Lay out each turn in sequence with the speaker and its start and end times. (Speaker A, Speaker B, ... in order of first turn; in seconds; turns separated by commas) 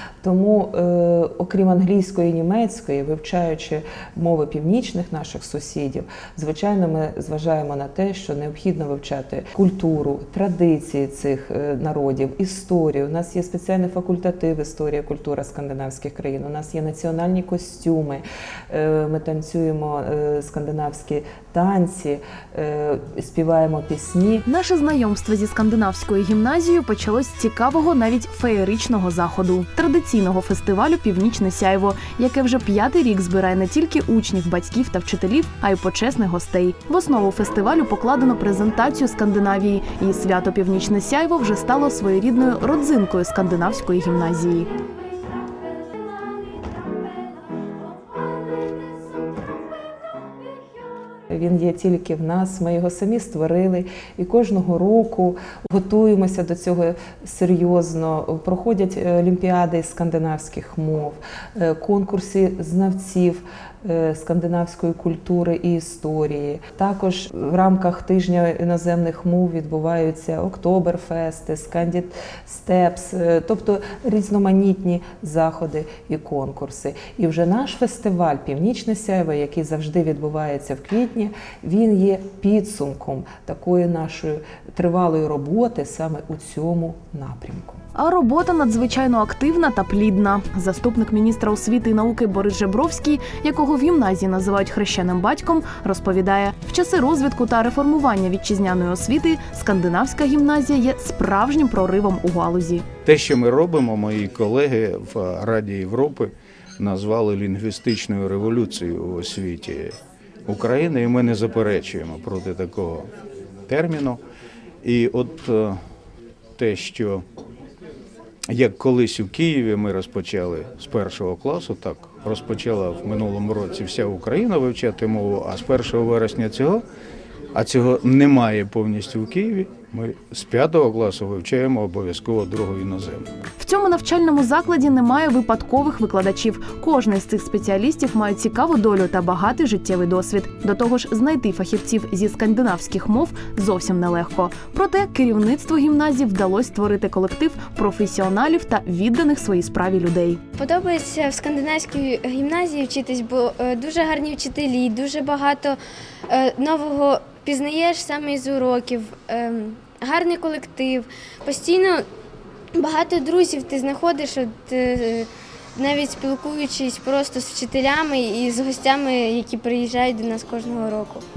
Speaker A: 0.2-24.4, Speaker B: 24.4-44.7, Speaker A: 51.3-87.8, Speaker B: 88.0-102.8, Speaker C: 103.0-109.9, Speaker C: 110.5-113.1, Speaker C: 113.7-114.2, Speaker C: 114.8-115.8, Speaker C: 116.6-117.2, Speaker C: 118.5-126.8, Speaker C: 127.5-133.2, Speaker B: 133.6-150.4, Speaker D: 150.6-155.8, Speaker D: 156.3-162.0, Speaker D: 162.7-171.2